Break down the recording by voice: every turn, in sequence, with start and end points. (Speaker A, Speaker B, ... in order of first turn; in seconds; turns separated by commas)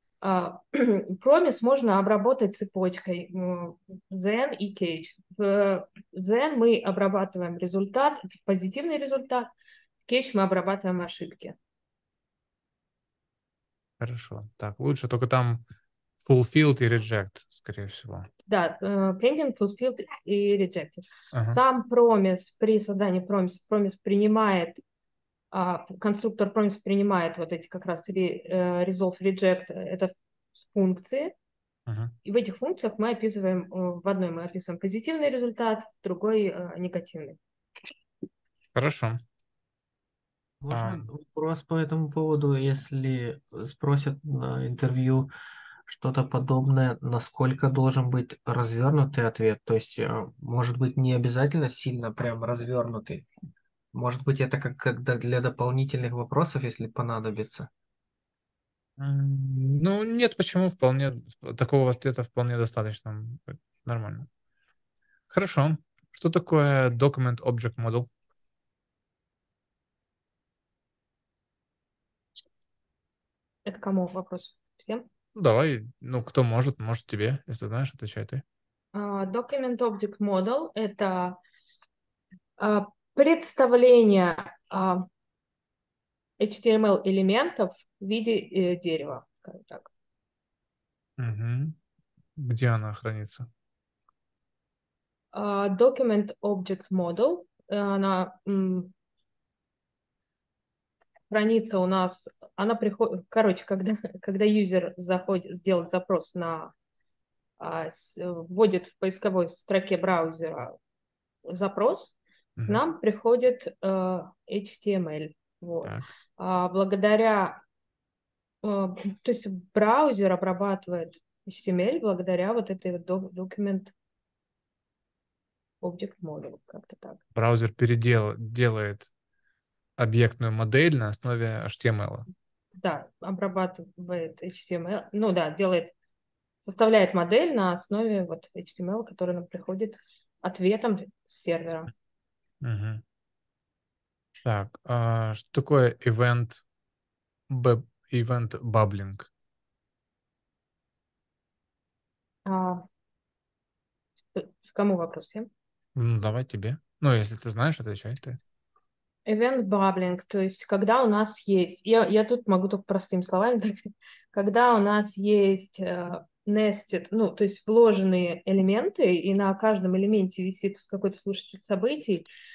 Speaker A: 0.2-9.5, Speaker A: 10.1-11.6, Speaker B: 14.0-15.6, Speaker B: 16.2-18.3, Speaker A: 18.5-24.8, Speaker B: 21.3-21.6, Speaker A: 25.5-31.3, Speaker B: 31.9-32.1, Speaker A: 32.2-37.4, Speaker B: 38.8-39.2, Speaker C: 40.6-45.3, Speaker B: 40.7-41.1, Speaker C: 45.9-53.3, Speaker C: 53.9-57.7, Speaker B: 59.0-64.3, Speaker B: 65.3-68.1, Speaker A: 73.7-75.1, Speaker B: 75.4-78.4, Speaker A: 78.9-81.4, Speaker A: 82.6-85.1, Speaker A: 86.4-89.9, Speaker B: 91.2-91.8, Speaker B: 92.4-93.5, Speaker A: 95.3-98.9, Speaker A: 101.3-106.7, Speaker A: 107.6-110.8, Speaker A: 111.5-117.6, Speaker A: 118.6-123.9, Speaker A: 125.8-127.2, Speaker B: 127.3-129.1, Speaker B: 130.0-132.3, Speaker A: 132.8-135.9, Speaker A: 136.6-141.9, Speaker B: 142.6-143.0, Speaker B: 144.4-146.6, Speaker B: 147.5-149.3, Speaker A: 152.5-152.8, Speaker A: 154.3-155.5, Speaker B: 156.0-158.4, Speaker A: 159.3-172.3